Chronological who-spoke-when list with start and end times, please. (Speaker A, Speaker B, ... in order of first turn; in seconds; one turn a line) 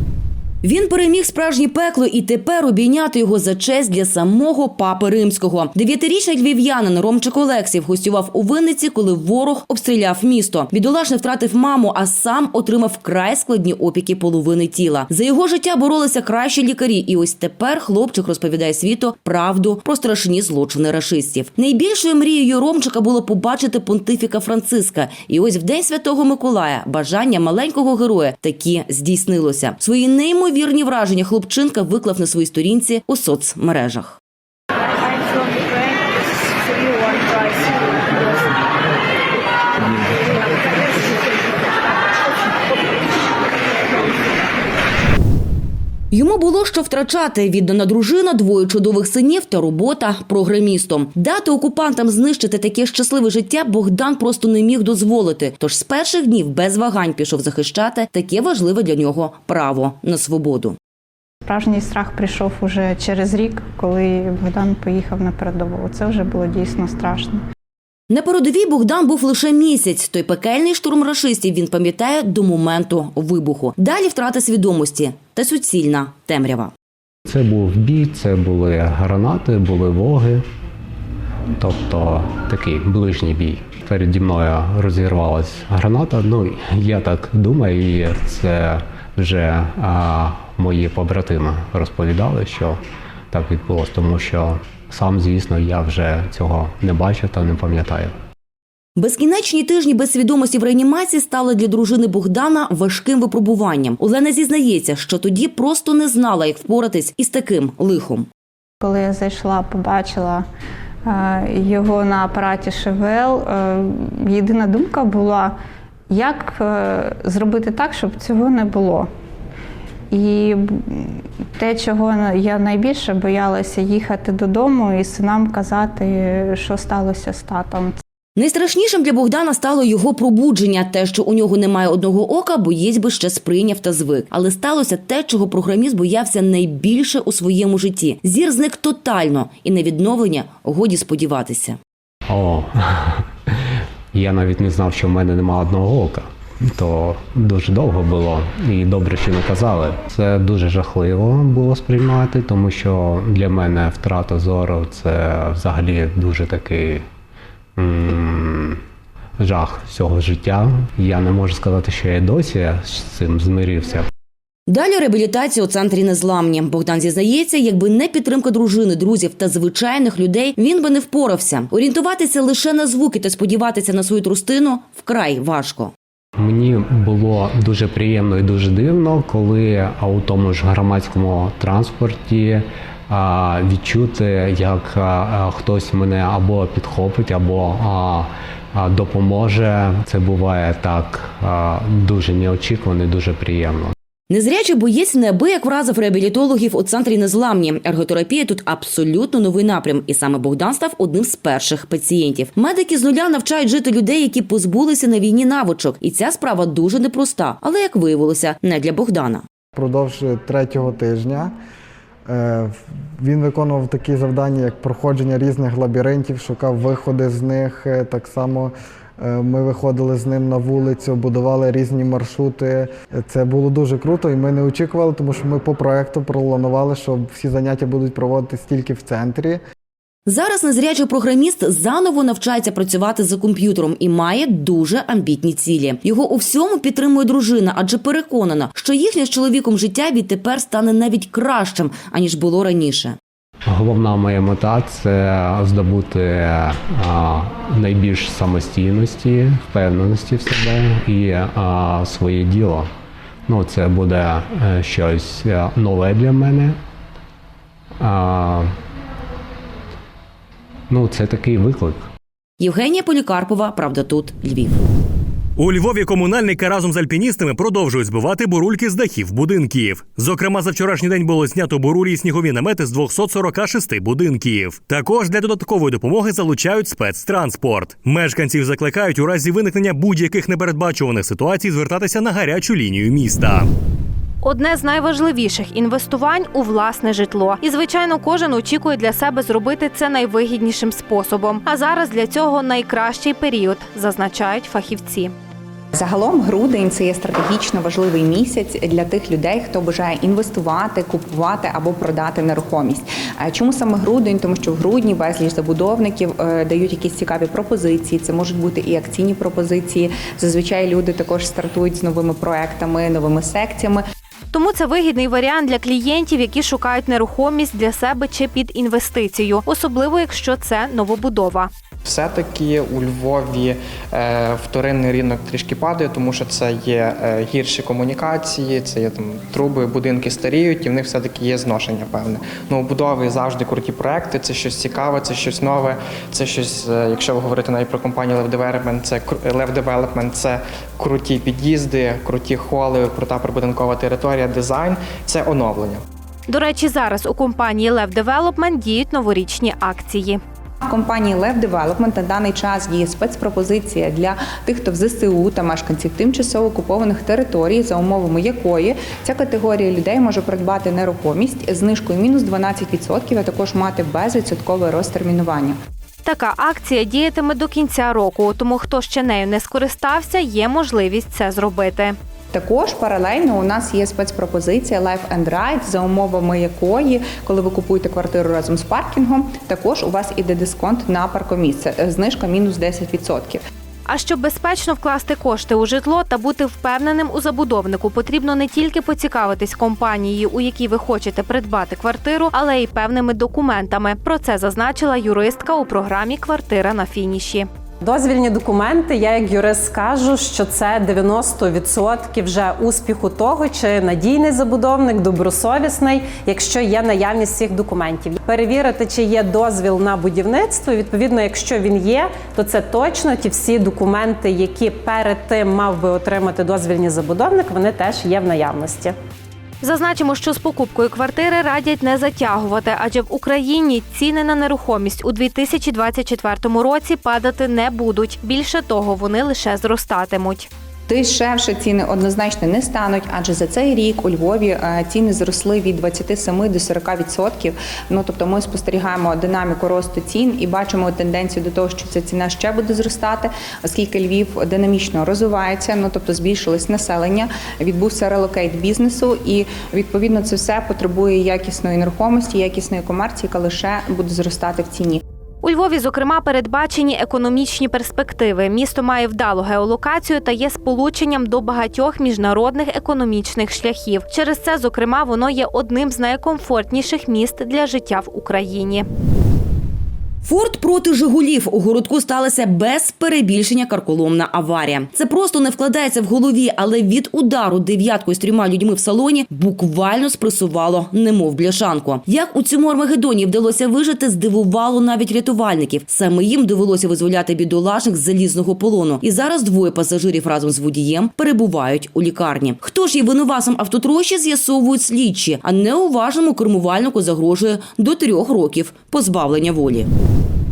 Speaker A: 0.6-34.2
Speaker A: 46.1-60.8
Speaker B: 61.9-67.4
Speaker A: 68.1-76.7
Speaker C: 77.2-80.4
Speaker C: 81.5-92.8
Speaker C: 93.3-98.1
Speaker A: 99.0-108.3
Speaker B: 108.8-110.4
Speaker B: 111.1-115.5
Speaker B: 116.1-119.1
Speaker D: 117.1-117.5
Speaker B: 120.1-127.9
Speaker D: 124.2-124.7
Speaker A: 128.4-141.8
Speaker C: 142.3-143.5
Speaker C: 144.1-157.0
Speaker C: 157.8-158.8
Speaker C: 159.4-164.1
Speaker A: 164.7-175.9
Speaker C: 176.4-193.9
Speaker A: 194.3-209.4
Speaker D: 209.7-211.5
Speaker D: 212.3-229.6
Speaker A: 230.3-243.2
Speaker C: 243.7-252.9
Speaker C: 253.5-256.8
Speaker C: 258.0-258.7
Speaker C: 260.9-262.0
Speaker A: 262.6-264.9
Speaker E: 265.6-283.6
Speaker F: 284.4-295.3
Speaker G: 295.9-314.0
Speaker F: 314.5-321.7
Speaker H: 322.0-346.0
Speaker F: 346.5-350.4
Speaker G: 350.8-365.8
Speaker F: 366.2-372.1
Speaker G: 372.5-383.6
Speaker F: 384.1-397.7
Speaker I: 398.0-419.1
Speaker F: 419.8-430.7
Speaker G: 431.1-455.2
Speaker F: 455.6-469.1
Speaker A: 470.4-500.1